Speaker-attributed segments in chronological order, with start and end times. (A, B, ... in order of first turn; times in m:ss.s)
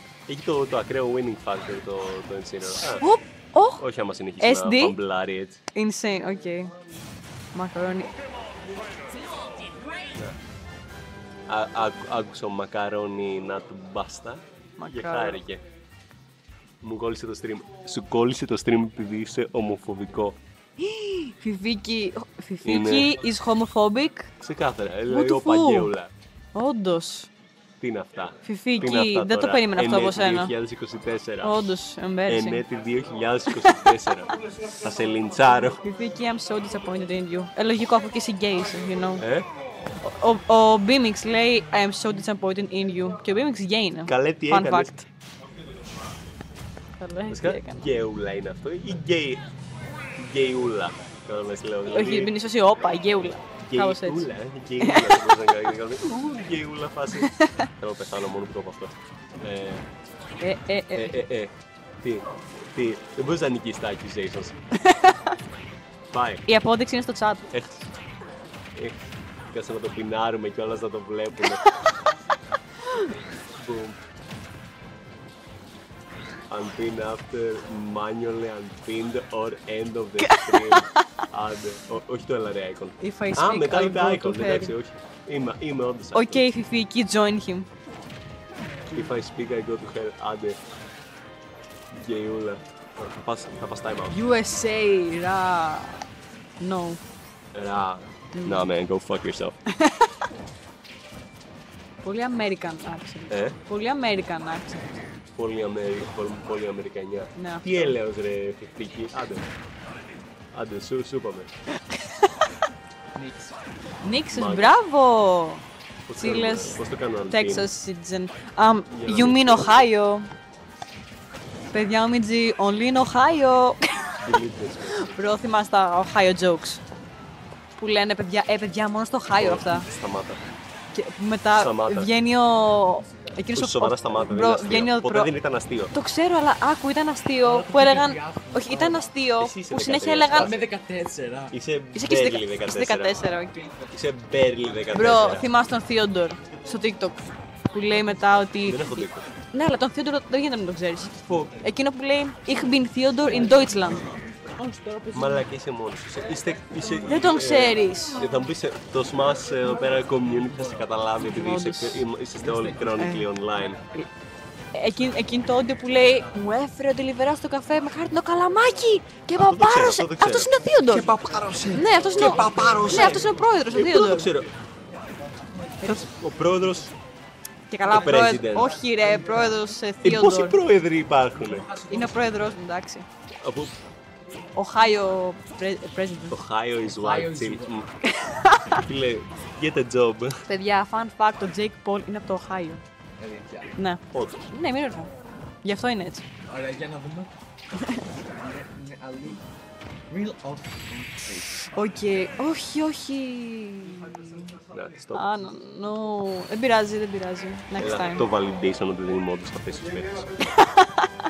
0:00.3-0:03.1 A
0:03.0-0:03.8 B
0:03.8-0:05.6 A
0:04.4-0:05.0 B
0:05.7-0:06.7 B
0:07.5-0:08.2 B
0:11.5-0:15.6 A
0:14.8-0:15.4 B
0:16.8-0:20.4 A
0:20.8-0:24.3 B
0:22.6-0:23.1 A
0:24.4-0:26.1 A
0:25.1-0:25.9 B
0:26.5-0:27.3 B
0:27.8-0:31.6 A
0:28.4-0:30.6 B
0:31.4-0:32.6 B
0:32.3-0:35.8 A
0:35.8-0:39.2 B
0:39.2-0:39.5 A
0:40.0-0:45.1 B
0:44.1-0:45.0 A
0:47.0-0:47.8 B
0:47.3-0:49.4 A
0:50.1-0:52.3 A
0:51.9-0:55.2 B
0:53.7-0:59.8 A
1:00.4-1:01.2 B
1:01.0-1:04.6 A
1:04.9-1:05.2 B
1:06.1-1:06.4 A
1:06.4-1:07.5 B
1:07.5-1:07.9 A
1:08.7-1:11.8 A
1:13.5-1:14.0 A
1:16.5-1:26.5 A
1:20.2-1:21.0 B
1:23.0-1:24.7 B
1:26.1-1:27.7 B
1:28.7-1:29.1 B
1:28.9-1:30.6 A
1:31.9-1:34.2 A
1:34.1-1:36.0 B
1:36.6-1:37.0 B
1:37.5-1:39.6 A
1:38.3-1:38.7 B
1:39.7-1:40.1 B
1:42.0-1:45.0 B
1:43.3-1:43.6 A
1:45.3-1:49.5 A
1:47.4-1:47.9 B
1:50.5-1:51.5 A
1:53.2-1:53.6 C
1:54.0-2:00.3 B
1:54.3-1:54.7 A
1:56.1-1:57.7 A
1:58.9-1:59.9 A
2:01.7-2:04.2 B
2:04.2-2:05.3 A
2:04.9-2:06.8 B
2:07.8-2:09.9 B
2:09.3-2:10.4 A
2:10.9-2:15.3 B
2:11.5-2:12.1 A
2:13.5-2:15.9 A
2:15.9-2:20.5 B
2:17.4-2:19.2 C
2:19.4-2:20.6 A
2:20.3-2:21.5 C
2:21.5-2:23.2 A
2:21.9-2:23.6 B
2:23.5-2:23.9 C
2:23.9-2:25.5 A
2:24.9-2:34.0 B
2:28.6-2:29.3 A
2:31.2-2:31.7 C
2:33.3-2:35.4 C
2:35.1-2:43.8 A
2:37.0-2:38.3 B
2:39.6-2:40.9 C
2:41.2-2:42.0 B
2:42.4-2:43.0 C
2:43.0-2:44.1 B
2:44.7-2:51.1 B
2:49.4-2:50.5 A
2:50.6-2:53.8 C
2:51.7-2:54.3 B
2:52.2-2:54.5 A
2:54.9-2:55.9 C
2:55.8-2:56.9 A
2:57.7-3:00.6 B
2:57.9-2:58.7 A
2:58.5-2:59.6 C
3:00.0-3:01.7 A
3:01.4-3:02.5 C
3:01.9-3:03.1 B
3:03.4-3:03.8 A
3:04.5-3:06.4 B
3:06.3-3:07.9 A
3:06.8-3:07.7 C
3:08.2-3:08.8 B
3:08.7-3:10.4 A
3:10.5-3:12.8 B
3:13.2-3:13.7 C
3:13.8-3:16.2 B
3:14.1-3:14.5 A
3:16.5-3:17.3 C
3:17.8-3:18.0 B
3:18.2-3:19.4 C
3:20.1-3:21.6 C
3:21.7-3:24.6 B
3:24.7-3:25.3 A
3:25.1-3:28.3 B
3:27.8-3:30.5 A
3:30.5-3:31.1 B